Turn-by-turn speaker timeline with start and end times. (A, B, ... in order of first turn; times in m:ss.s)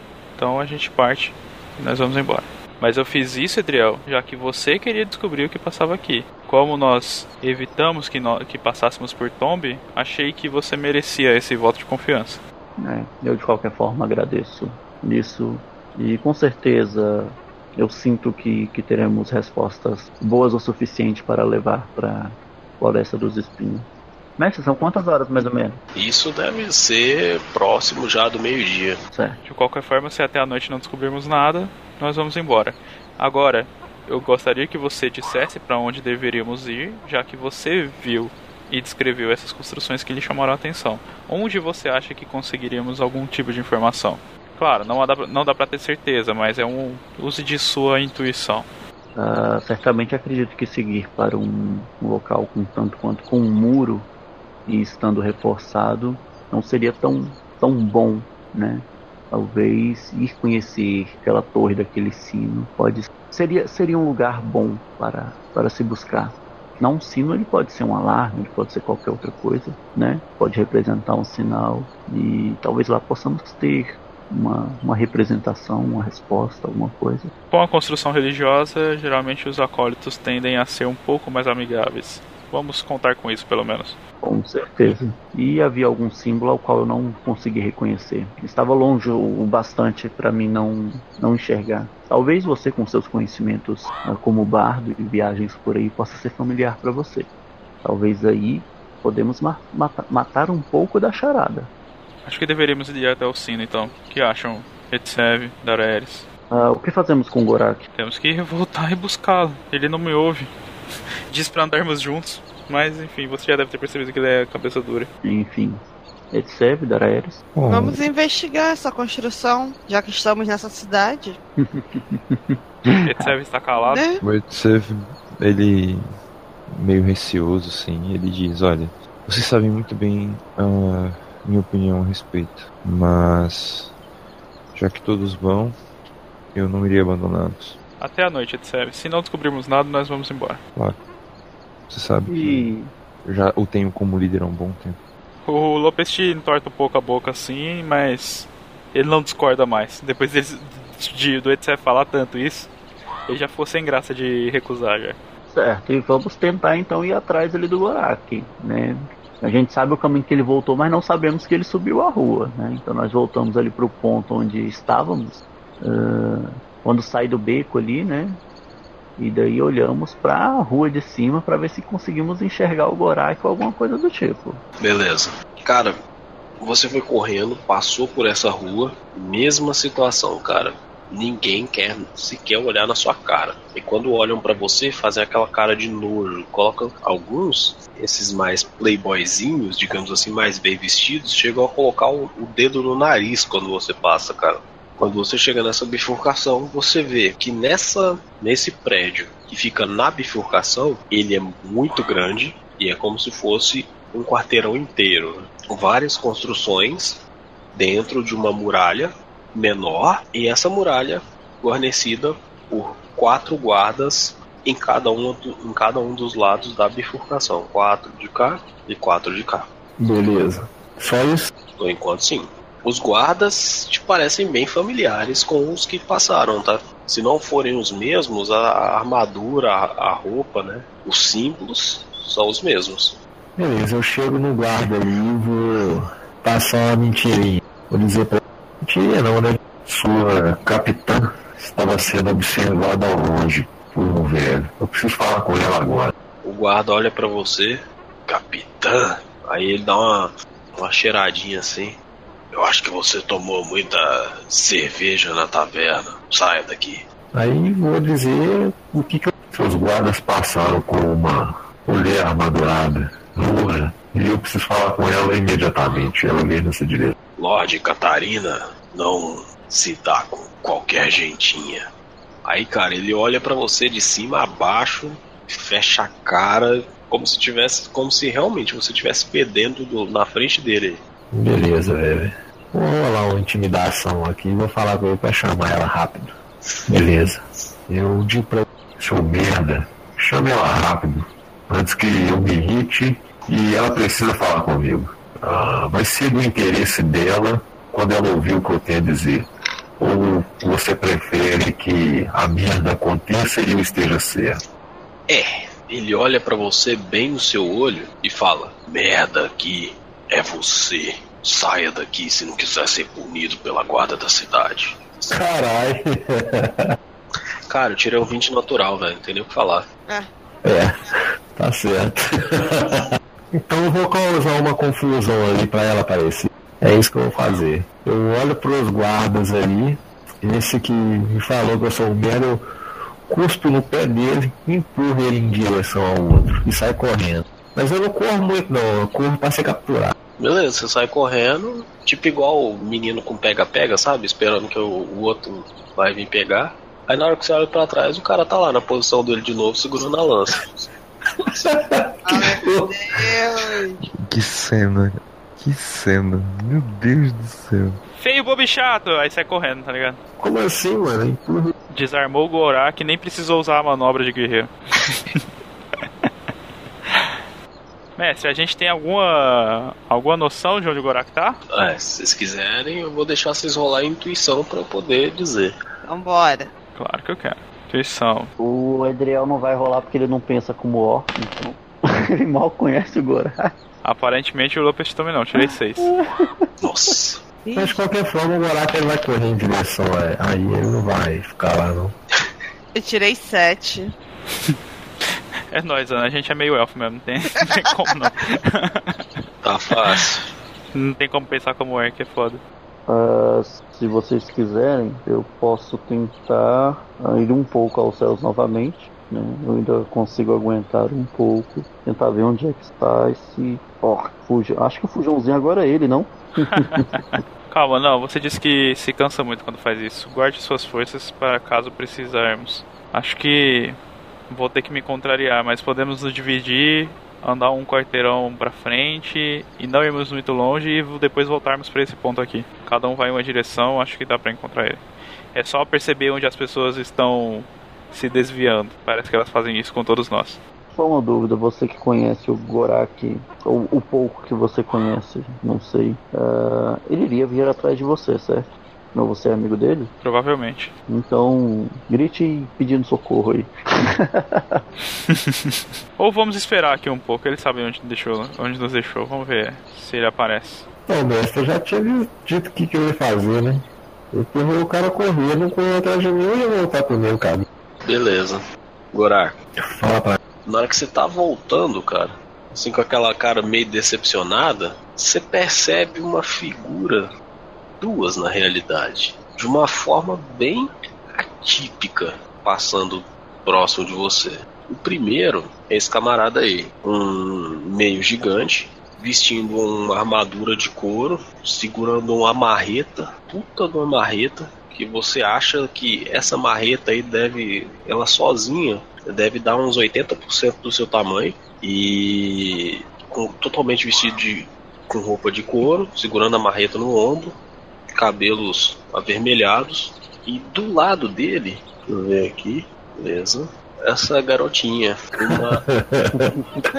0:00.4-0:12.4 A
0:12.8-0:23.9 B
0:24.4-0:25.8 B
0:25.9-0:29.0 C
0:29.1-0:29.4 B
0:29.4-0:48.7 A
0:49.1-0:54.1 B
0:54.6-1:17.3 B
1:17.5-1:24.0 A
1:24.2-1:37.3 B
1:37.8-1:41.7 B
1:42.2-1:46.3 A
1:46.5-1:47.8 B
1:47.9-1:50.5 A
1:51.3-1:55.1 A
1:55.2-1:57.4 B
1:57.5-1:58.0 D
1:57.7-2:01.4 E
2:01.6-2:03.3 B
2:03.0-2:04.1 A
2:03.8-2:04.2 E
2:04.2-2:06.1 D
2:06.7-2:13.9 D
2:14.7-2:15.8 D
2:16.5-2:17.8 D
2:18.0-2:20.6 A
2:21.9-2:22.7 D
2:22.3-2:22.9 B
2:23.2-2:25.0 D
2:25.4-2:32.7 A
2:33.3-2:35.2 A
2:35.5-2:48.4 B
2:49.2-2:54.6 B
2:54.8-2:55.9 C
2:56.6-3:27.2 C
3:27.7-3:39.7 C
3:40.0-3:41.5 F
3:41.8-3:53.2 C
3:53.6-4:06.1 F
4:06.4-4:12.0 C
4:12.5-4:17.0 C
4:17.3-4:27.2 F
4:27.4-4:31.8 C
4:32.4-4:41.0 C
4:41.3-4:46.3 F
4:46.9-5:04.6 F
5:05.3-5:15.1 C
5:15.3-5:16.9 F
5:17.7-5:19.9 C
5:20.6-5:32.6 F
5:33.3-5:40.1 F
5:40.4-5:50.9 C
5:51.4-5:53.2 F
5:52.2-5:54.0 E
5:54.0-5:58.0 D
5:58.2-6:00.2 A
6:00.4-6:01.7 F
6:01.9-6:05.4 A
6:06.0-6:06.3 A
6:07.1-6:07.4 A
6:08.2-6:11.6 A
6:11.7-6:15.8 C
6:16.0-6:16.7 E
6:17.0-6:18.5 A
6:18.6-6:23.7 B
6:24.0-6:26.1 A
6:25.6-6:26.7 B
6:26.8-6:27.4 C
6:27.6-6:28.0 E
6:27.8-6:32.1 F
6:32.9-6:34.1 E
6:35.7-6:39.4 A
6:39.6-6:40.4 C
6:40.9-6:42.6 A
6:43.1-6:57.1 B
6:56.6-7:04.0 A
7:04.5-7:15.0 A
7:15.5-7:20.6 A
7:20.9-7:30.1 B
7:30.2-7:30.9 A
7:31.1-7:34.8 B
7:35.3-7:40.9 A
7:41.0-7:47.6 F
7:48.0-7:48.6 C
7:49.1-7:49.6 C
7:49.9-7:50.4 F
7:50.6-7:57.3 C
7:58.0-8:27.5 C
8:28.2-8:35.8 C
8:35.5-8:36.6 F